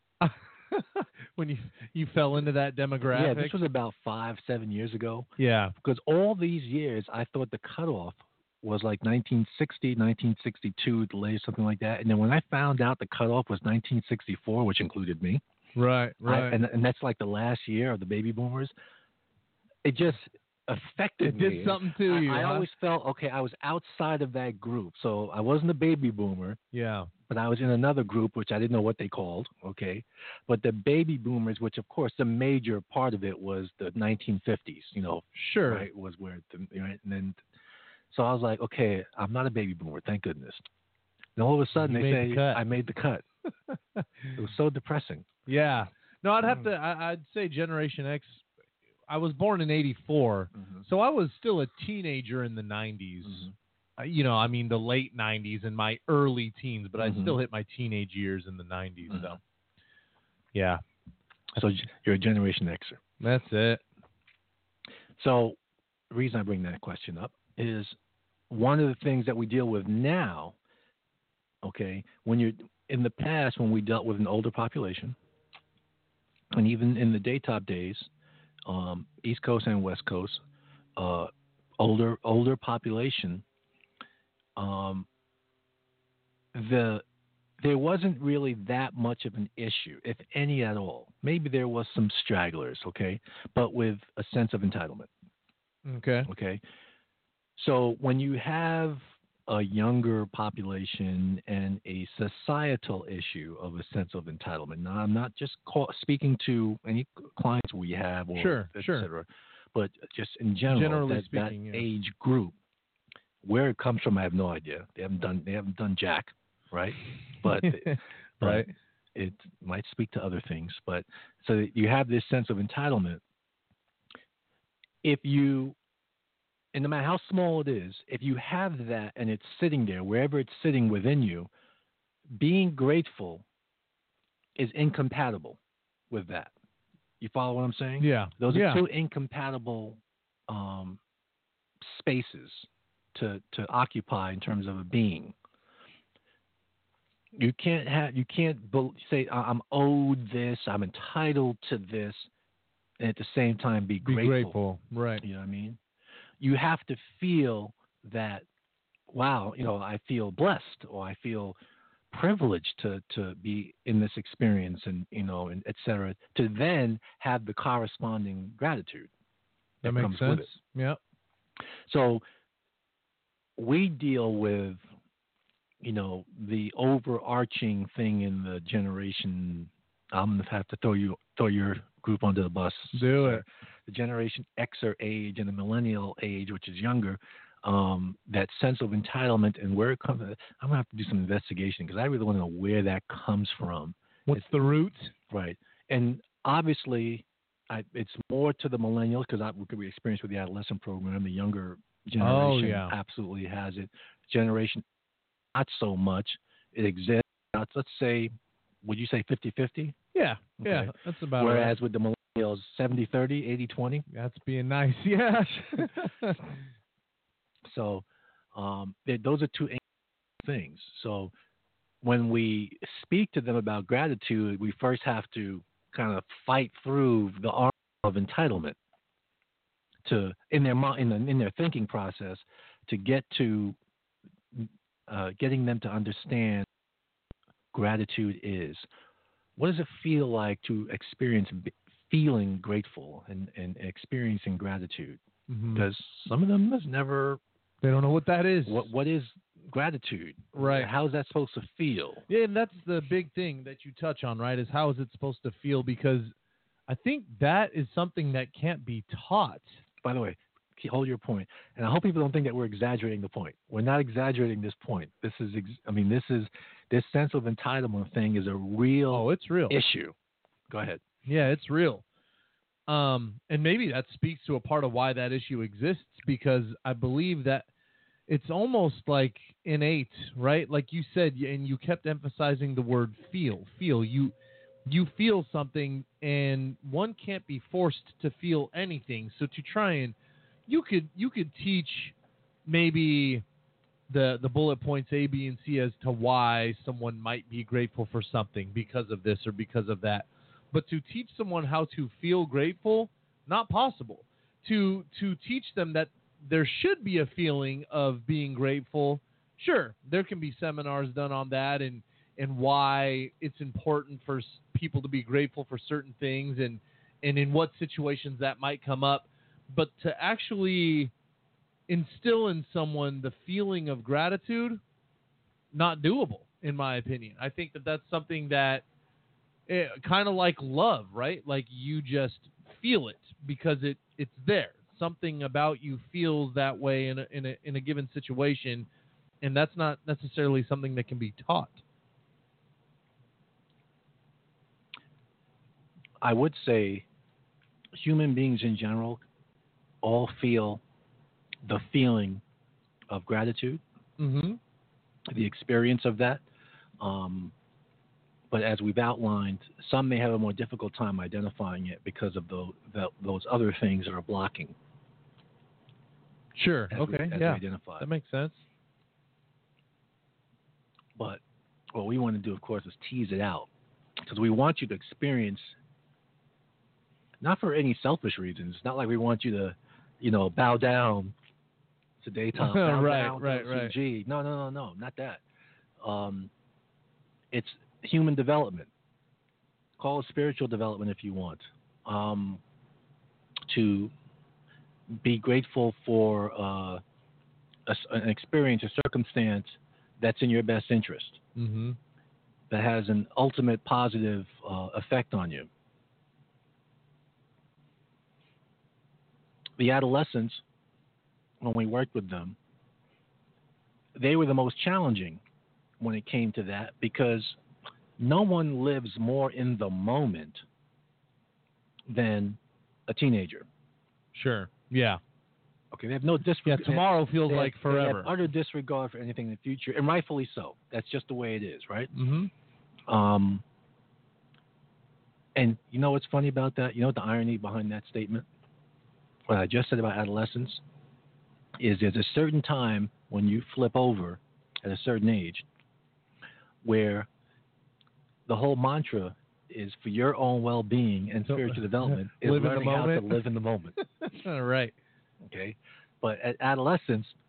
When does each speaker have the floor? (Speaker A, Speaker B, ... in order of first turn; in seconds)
Speaker A: 0.2-3.6, 5.4-5.7, 15.8-16.6, 21.2-22.7, 26.7-27.1, 35.4-35.9, 41.8-42.6, 43.7-44.3, 45.5-48.5, 49.1-59.4, 60.5-60.8, 63.2-63.8, 95.9-96.3, 108.4-109.1, 110.7-111.9, 117.5-118.7, 138.0-138.8, 154.1-155.2, 169.8-171.0, 182.9-183.4, 194.3-195.1, 202.2-202.9, 210.1-211.8, 214.1-216.4, 245.5-245.9, 247.8-248.9, 250.5-250.9, 252.3-256.3, 256.9-259.8, 269.1-269.8, 271.3-272.0, 272.9-277.7, 278.3-284.3, 284.9-290.1, 290.7-292.1, 292.7-293.4, 294.1-321.1, 321.9-324.8, 325.7-328.9, 329.7-338.9, 339.4-341.8, 354.2-354.6, 366.6-368.6, 382.6-383.9, 401.6-402.0, 424.3-425.2, 426.7-428.3, 432.1-432.5, 451.5-453.4, 454.2-454.9
Speaker B: 3.1-5.3, 5.8-15.4, 16.2-18.7, 19.8-26.6, 27.3-37.4, 38.1-40.6, 41.4-43.2, 44.4-45.3, 46.4-46.7, 50.6-50.9, 53.2-53.5, 57.0-57.4, 59.1-59.4, 61.6-63.0, 65.2-65.6, 66.1-68.0, 68.5-70.6, 71.6-75.2, 76.5-78.1, 78.7-80.4, 81.0-83.5, 84.6-85.1, 86.5-87.0, 87.6-95.1, 96.3-96.6, 97.6-112.6, 113.4-123.2, 125.0-125.8, 126.7-131.5, 132.3-133.4, 134.6-135.6, 136.1-136.5, 137.2-141.0, 141.8-145.3, 147.3-152.3, 153.0-154.6, 155.2-155.8, 156.4-158.4, 159.1-161.6, 162.1-169.1, 169.8-170.6, 171.9-172.2, 173.6-174.8, 175.8-194.4, 195.3-204.8, 205.5-209.9, 210.6-214.1, 217.6-219.8, 220.4-221.3, 222.0-228.8, 230.1-233.8, 234.5-236.7, 237.7-238.9, 239.6-245.2, 245.8-247.4, 248.7-252.2, 260.0-270.1, 270.7-271.0, 346.2-347.1, 347.9-349.2, 350.0-350.8, 351.6-352.4, 353.1-353.8, 355.3-356.4, 357.0-357.5, 358.5-364.8, 366.9-368.1, 371.2-371.4, 371.9-375.8, 377.4-381.4, 382.2-385.4, 386.0-386.5, 387.5-388.9, 390.0-392.6, 393.7-394.1, 395.1-397.0, 397.9-401.4, 402.7-405.7, 409.8-410.6, 411.6-412.6, 414.1-415.4, 416.0-417.6, 418.2-420.6, 422.1-423.7, 425.9-432.1, 433.1-433.6, 435.6-438.5, 439.5-440.8, 441.8-445.7, 446.8-447.3, 448.5-454.0, 455.4-457.4